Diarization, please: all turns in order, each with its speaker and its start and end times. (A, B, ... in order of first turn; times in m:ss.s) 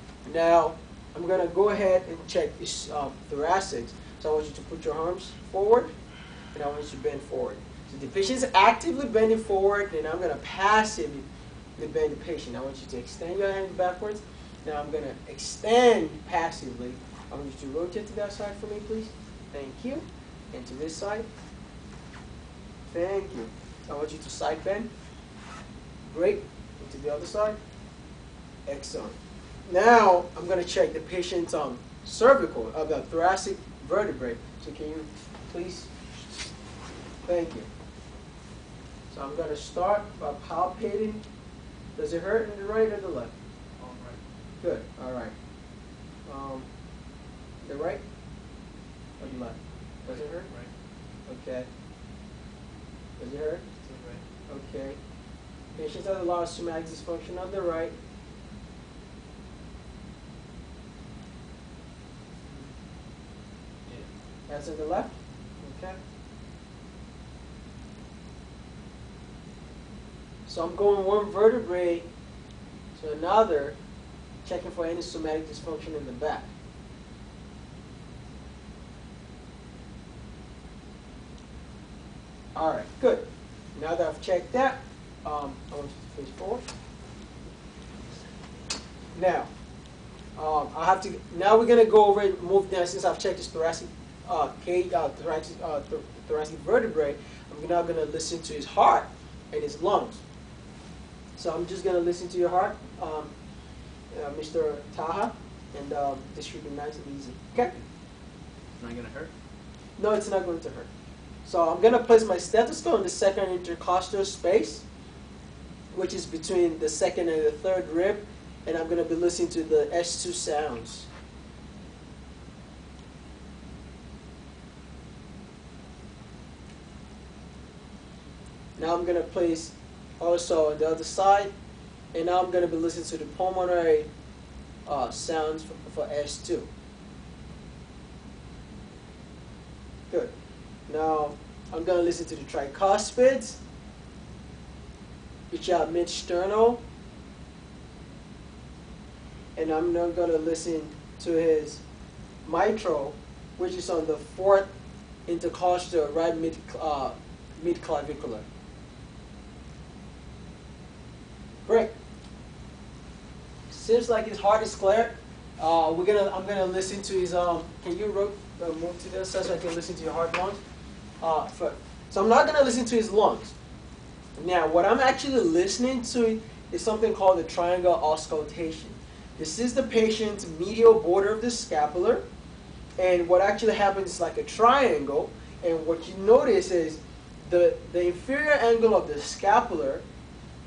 0:00.2-0:05.9 A
0:06.5-0:21.2 A
0:22.9-0:24.9 A
0:26.0-0:27.6 A
0:28.6-0:35.9 A
0:37.2-0:37.7 A
0:39.1-0:41.2 A
0:42.0-0:43.3 A
0:43.8-0:44.2 B
0:44.6-0:45.3 A
0:46.2-0:46.7 A
0:47.6-0:48.0 A
0:49.2-0:50.5 A
0:50.0-0:50.7 B
0:51.3-0:51.7 A
0:53.2-0:53.6 A
0:53.8-0:54.2 B
0:54.5-0:55.0 A
0:55.7-0:57.9 A
1:04.5-1:06.0 A
1:10.4-1:12.1 A
1:12.9-1:13.8 A
1:14.4-1:16.5 A
1:22.5-1:26.6 A
1:29.1-1:29.5 A
1:30.4-1:40.2 A
1:41.4-1:43.3 A
1:44.1-1:47.7 A
1:48.8-1:49.3 B
1:50.0-1:50.9 A
1:51.4-1:54.8 A
1:55.9-2:01.1 A
2:08.8-2:11.5 A
2:12.1-2:14.1 A
2:14.8-2:16.7 A
2:20.9-2:23.6 A
2:25.5-2:26.8 A
2:29.6-2:31.8 A
2:32.4-2:34.7 A
2:35.3-2:38.4 A
2:41.6-2:41.9 A
2:43.7-2:50.6 A
2:51.2-2:53.5 A
2:54.4-3:02.2 A
3:03.0-3:10.0 A